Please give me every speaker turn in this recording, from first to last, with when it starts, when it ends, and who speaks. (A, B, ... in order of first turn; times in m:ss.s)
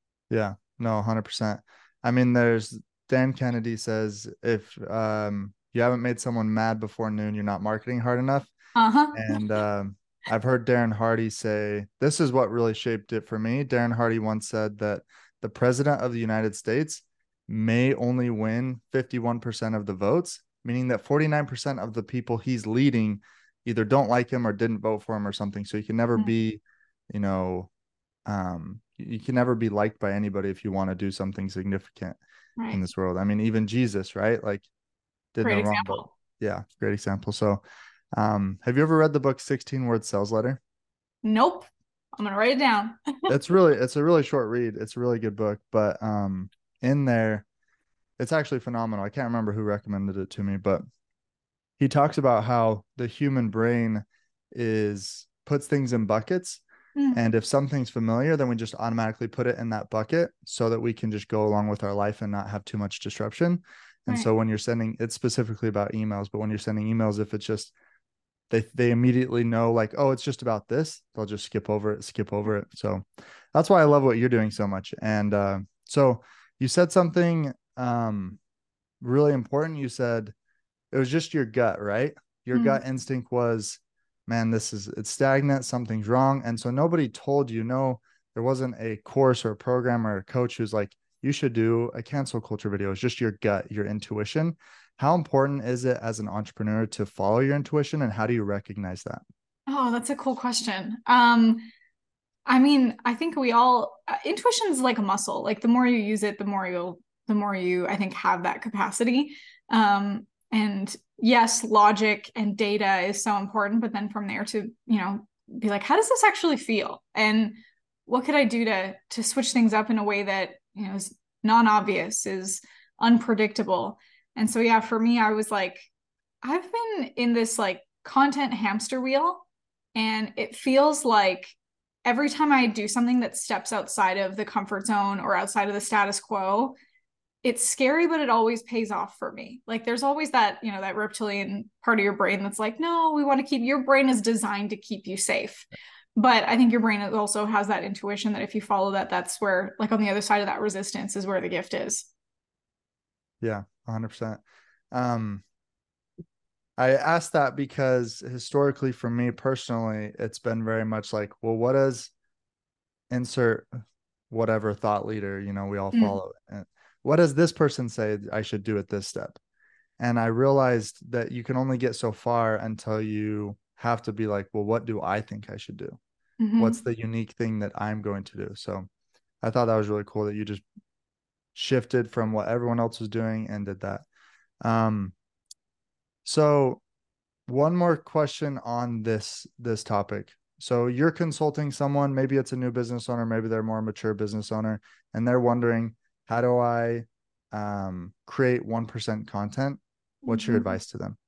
0:00.3-0:08.5 A
0:08.8-0:09.4 B
0:09.1-0:27.7 A
0:28.3-0:32.2 A
0:32.6-0:32.8 B
0:32.7-0:34.7 A
0:35.3-0:37.6 A
0:35.4-0:36.1 B
0:38.2-0:40.6 A
0:41.2-0:43.3 B
0:43.3-0:47.5 A
0:48.2-0:50.8 A
0:51.8-1:07.7 A
0:57.0-0:57.2 B
1:08.5-1:13.0 A
1:13.5-1:18.4 A
1:19.0-1:20.3 A
1:20.9-1:39.2 A
1:22.5-1:22.8 B
1:39.7-1:41.7 B
1:42.5-2:05.9 B
2:06.4-2:16.8 B
2:17.4-2:32.1 B
2:33.4-2:34.4 A
2:34.9-2:35.4 A
2:36.8-2:42.1 A
2:43.1-2:43.7 A
2:44.3-2:49.4 A
2:50.0-2:56.0 A
2:56.4-2:56.8 B
2:56.6-2:58.9 A
2:59.4-3:00.6 A
3:01.6-3:04.0 A
3:04.6-3:05.2 A
3:06.2-3:06.8 A
3:07.5-3:21.2 A
3:20.2-3:20.7 B